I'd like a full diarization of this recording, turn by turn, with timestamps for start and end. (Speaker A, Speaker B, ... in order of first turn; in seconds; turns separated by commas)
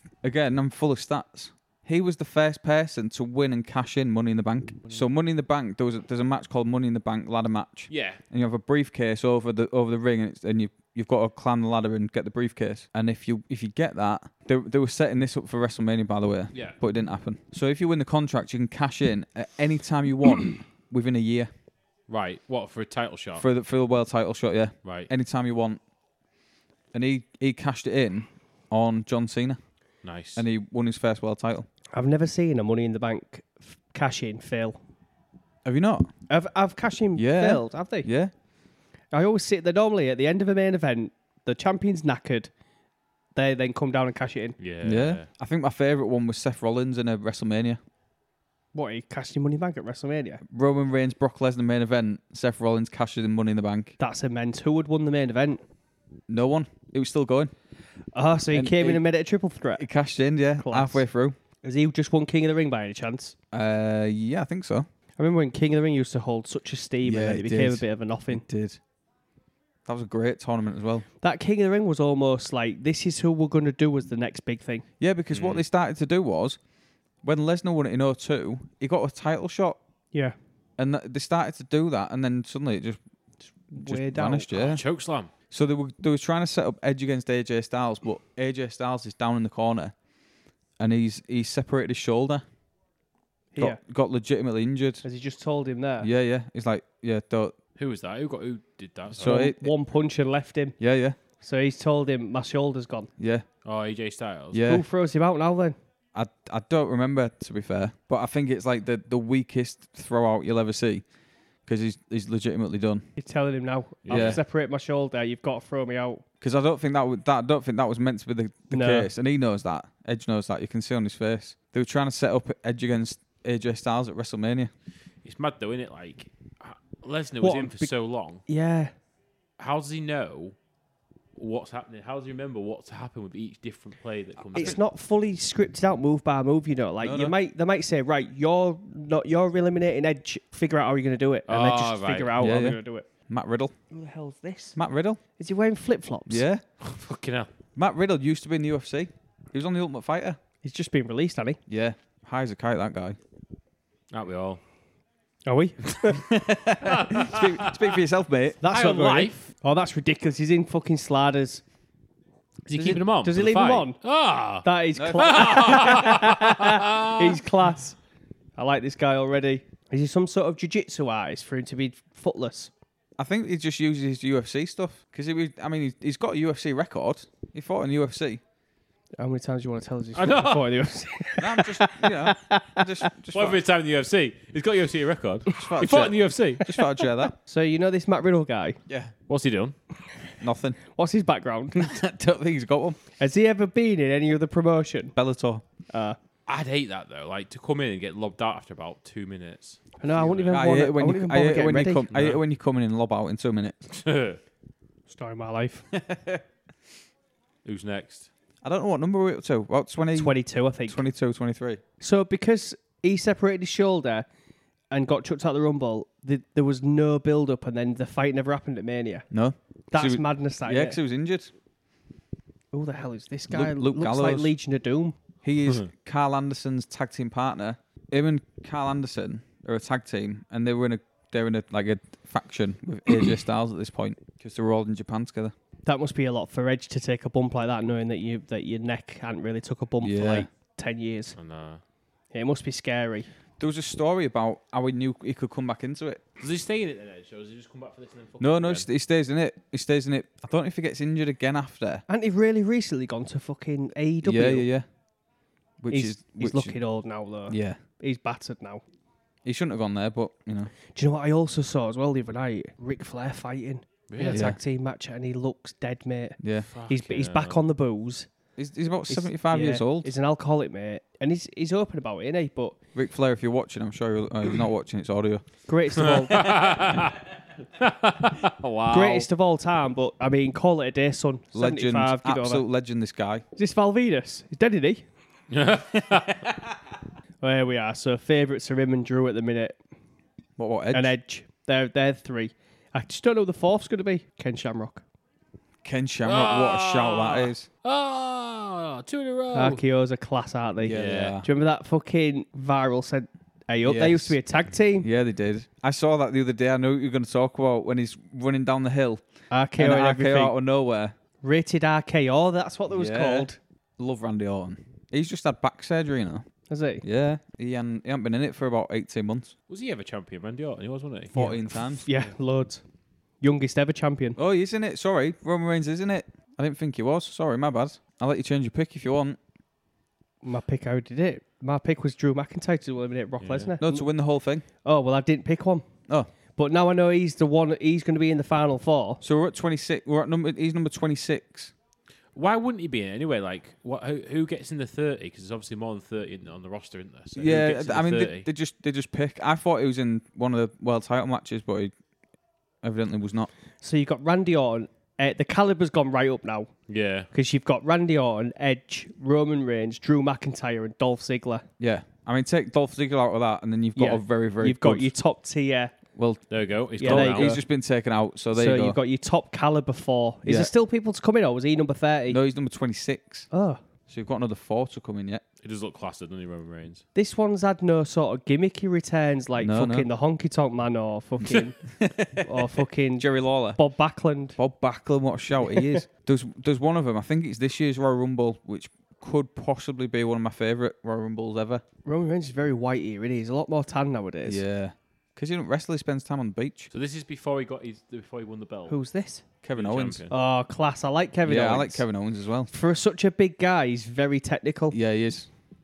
Speaker A: 0.2-21.5, Speaker B: 7.9-8.2, Speaker B: 16.5-16.8, Speaker B: 22.1-23.5, Speaker A: 23.4-25.8, Speaker B: 24.8-25.1, Speaker A: 26.9-29.6, Speaker B: 30.0-30.4, Speaker A: 30.4-31.7, Speaker C: 31.9-34.8, Speaker A: 35.6-36.1, Speaker C: 36.3-38.1, Speaker A: 37.2-38.3, Speaker C: 39.1-42.5, Speaker C: 43.4-44.6, Speaker B: 44.6-45.3, Speaker A: 44.8-47.8, Speaker C: 48.7-50.4, Speaker A: 50.5-54.0, Speaker C: 54.0-55.6, Speaker A: 56.3-57.5, Speaker C: 58.1-59.9, Speaker A: 58.5-59.0, Speaker A: 59.8-61.4, Speaker C: 60.6-61.0, Speaker C: 61.6-63.4, Speaker A: 63.5-64.9, Speaker C: 65.2-68.4, Speaker A: 67.0-68.8, Speaker A: 69.9-71.1, Speaker C: 71.2-74.8, Speaker A: 75.0-76.6, Speaker B: 75.3-75.6, Speaker A: 77.2-79.8, Speaker A: 80.8-83.0, Speaker C: 83.7-84.5, Speaker A: 83.7-84.8, Speaker B: 84.5-85.3, Speaker A: 85.5-89.9, Speaker A: 90.8-92.4, Speaker C: 93.5-93.8, Speaker A: 93.6-95.0, Speaker C: 95.0-96.1, Speaker A: 96.0-97.5, Speaker B: 97.8-99.5, Speaker A: 99.2-99.7, Speaker C: 99.2-100.8, Speaker A: 100.8-101.2, Speaker C: 101.4-103.1, Speaker A: 103.2-103.5, Speaker B: 103.7-104.6, Speaker A: 104.5-104.8, Speaker C: 104.7-105.8, Speaker A: 106.2-111.0, Speaker A: 111.7-113.1, Speaker C: 113.2-116.2, Speaker B: 114.0-114.4, Speaker A: 114.1-114.4, Speaker A: 116.4-124.7, Speaker C: 118.7-119.1, Speaker B: 125.2-128.4, Speaker C: 127.4-127.9, Speaker C: 128.5-128.9, Speaker B: 129.6-130.6, Speaker B: 131.4-134.8, Speaker C: 134.5-143.1, Speaker A: 137.0-137.3, Speaker B: 141.5-142.4, Speaker A: 142.4-143.7, Speaker C: 143.9-144.8, Speaker A: 144.8-145.2, Speaker C: 145.4-146.4, Speaker A: 146.3-146.6, Speaker B: 146.8-147.5, Speaker A: 147.8-150.4, Speaker C: 150.6-151.6, Speaker A: 151.7-153.2, Speaker B: 154.1-154.6, Speaker C: 155.5-156.3, Speaker A: 156.2-158.6, Speaker B: 156.8-158.0, Speaker C: 158.6-161.6, Speaker B: 158.6-159.5, Speaker B: 162.7-167.4, Speaker C: 162.8-164.0, Speaker C: 164.6-168.0, Speaker A: 164.9-166.1, Speaker C: 168.6-172.7, Speaker A: 173.2-178.4, Speaker C: 179.2-183.1, Speaker B: 180.2-180.8, Speaker A: 181.4-183.6, Speaker B: 183.3-186.7, Speaker A: 185.5-187.3, Speaker C: 187.3-188.8, Speaker A: 188.9-189.1, Speaker B: 189.3-189.8, Speaker A: 190.4-190.8, Speaker C: 190.9-191.9, Speaker A: 191.8-193.0, Speaker C: 193.2-195.1, Speaker A: 195.2-195.6, Speaker C: 195.9-196.2, Speaker B: 196.5-200.6, Speaker C: 200.0-202.1, Speaker A: 200.5-203.8, Speaker B: 202.1-202.4, Speaker B: 203.9-204.4, Speaker C: 205.1-205.9, Speaker B: 207.7-208.3, Speaker A: 208.6-210.3, Speaker C: 210.2-211.0, Speaker A: 210.9-211.8, Speaker C: 212.0-214.3, Speaker C: 214.9-219.3, Speaker A: 219.3-221.5, Speaker C: 219.9-221.0, Speaker C: 222.7-225.2, Speaker A: 223.5-224.5, Speaker A: 225.4-235.5, Speaker C: 235.9-241.4, Speaker A: 240.0-240.5, Speaker B: 241.4-241.8, Speaker C: 242.3-243.3, Speaker A: 243.6-246.2, Speaker B: 246.4-248.9, Speaker A: 248.4-252.0, Speaker C: 252.1-254.7, Speaker A: 254.2-254.9, Speaker A: 255.8-256.8, Speaker C: 255.9-258.8, Speaker A: 257.5-257.8, Speaker A: 259.4-260.7, Speaker C: 260.9-268.3, Speaker B: 264.1-264.5, Speaker A: 264.3-264.6, Speaker A: 266.4-266.7, Speaker B: 266.7-267.6, Speaker A: 268.6-270.1, Speaker C: 269.1-272.8, Speaker A: 272.9-275.5, Speaker C: 275.7-276.8, Speaker B: 276.0-279.3, Speaker C: 278.9-282.6, Speaker A: 281.5-283.4, Speaker C: 283.6-285.1, Speaker B: 285.5-286.6, Speaker C: 287.4-289.8, Speaker A: 290.6-291.1, Speaker C: 290.9-295.0, Speaker A: 295.8-297.7, Speaker B: 296.2-299.8, Speaker C: 299.5-305.1, Speaker A: 300.8-301.5, Speaker B: 300.9-301.4, Speaker A: 303.8-304.4, Speaker A: 305.0-309.2, Speaker C: 309.5-310.5, Speaker A: 309.8-311.1, Speaker C: 311.4-313.6, Speaker A: 312.9-316.4, Speaker C: 316.7-317.0, Speaker A: 317.0-319.6, Speaker B: 319.7-321.3, Speaker A: 321.3-322.1, Speaker C: 321.4-322.8, Speaker C: 323.4-324.4, Speaker A: 324.4-329.4, Speaker C: 330.4-334.1, Speaker B: 333.4-333.7, Speaker A: 333.8-334.7, Speaker C: 334.8-335.9, Speaker C: 336.6-339.2, Speaker A: 339.2-341.7, Speaker B: 342.4-348.5, Speaker A: 347.4-351.9, Speaker A: 352.8-353.5, Speaker C: 353.8-356.7, Speaker B: 356.9-357.3, Speaker C: 357.3-361.7, Speaker A: 361.8-365.1, Speaker C: 364.0-365.9, Speaker A: 366.2-366.4, Speaker B: 366.5-367.6, Speaker C: 367.0-367.6, Speaker A: 367.0-369.0, Speaker C: 368.5-372.4, Speaker A: 370.4-370.7, Speaker A: 372.3-373.5, Speaker C: 373.5-373.8, Speaker A: 374.1-375.4, Speaker B: 375.6-377.0, Speaker C: 377.2-381.8, Speaker A: 379.6-380.1, Speaker A: 381.4-383.8, Speaker C: 382.4-384.6, Speaker A: 384.6-391.8, Speaker C: 385.6-386.0, Speaker C: 392.1-394.6, Speaker A: 394.4-396.9, Speaker B: 396.9-399.0, Speaker C: 398.9-399.4, Speaker A: 399.6-400.3, Speaker B: 399.8-400.3, Speaker C: 400.3-402.0, Speaker A: 401.5-402.7, Speaker C: 402.7-405.0, Speaker A: 404.9-405.5